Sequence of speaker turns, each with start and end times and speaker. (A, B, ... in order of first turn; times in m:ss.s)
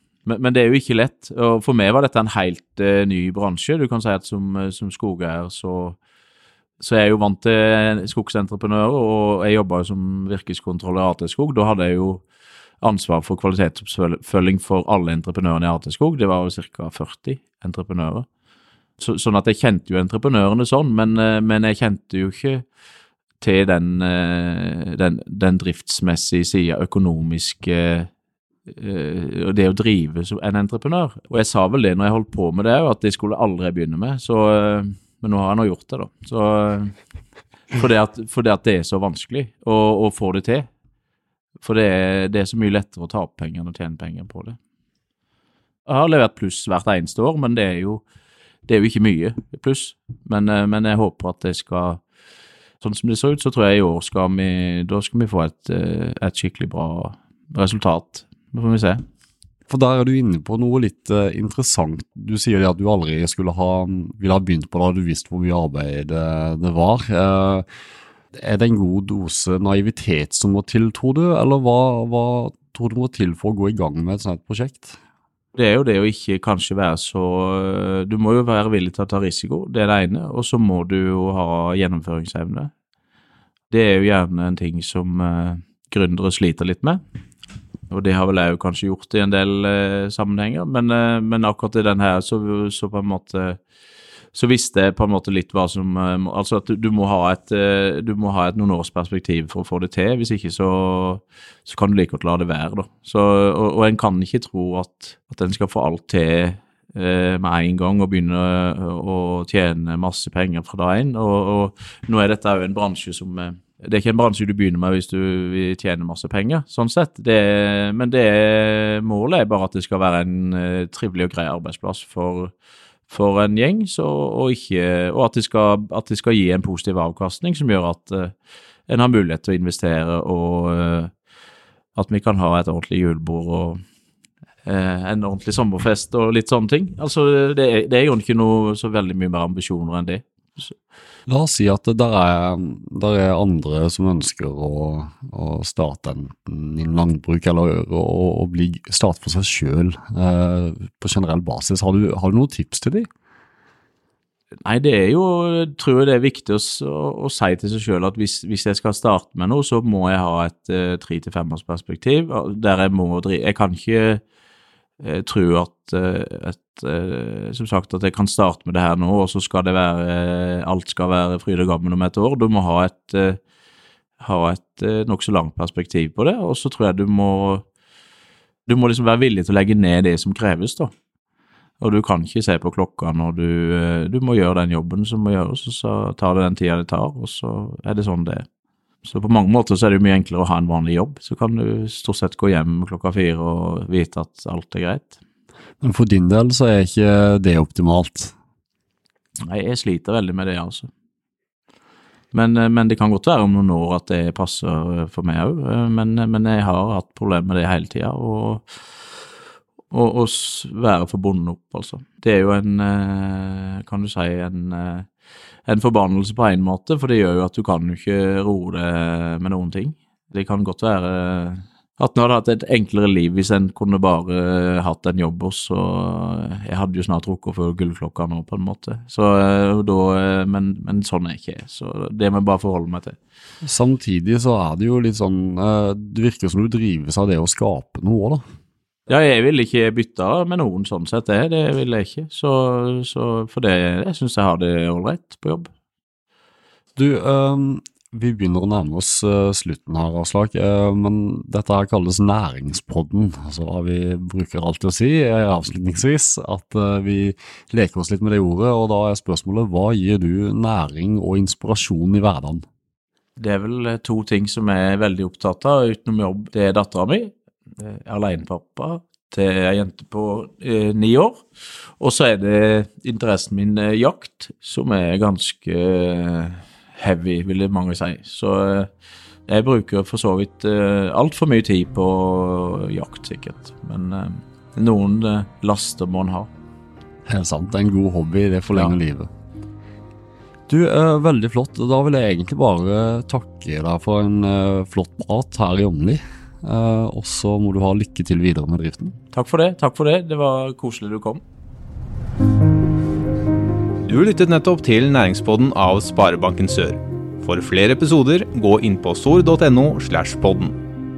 0:00.3-0:06.0 A
0:06.8-0:12.2 A
0:12.8-0:18.3 A
0:19.0-0:22.6 A
0:23.4-0:28.1 A
0:28.7-0:37.0 A
0:37.7-0:40.7 A
0:41.6-0:44.6 A
0:45.9-0:48.0 A
0:48.7-0:52.0 A
0:52.8-0:59.0 A
0:59.7-1:07.6 B
1:08.3-1:15.0 B
1:15.6-1:22.7 A
1:23.7-1:27.0 A
1:27.9-1:33.6 A
1:34.3-2:02.5 A
2:03.1-2:08.3 A
2:08.9-2:11.1 A
2:12.0-2:13.8 A
2:14.7-2:20.7 A
2:21.3-2:33.1 B
2:34.6-2:44.2 A
2:45.0-2:53.4 A
2:54.2-2:57.7 A
2:58.7-3:00.9 A
3:01.8-3:08.5 A
3:09.0-3:15.2 A
3:15.8-3:18.3 B
3:19.4-3:20.9 A
3:22.3-3:28.8 A
3:29.9-3:35.1 A
3:35.7-3:53.2 A
3:53.6-3:58.4 B
3:59.1-4:05.7 A
4:07.0-4:22.6 B
4:23.4-4:38.9 A
4:39.5-4:46.5 A
4:47.3-4:49.3 B
4:50.7-4:59.1 B
4:59.3-5:01.4 A
5:04.0-5:10.8 C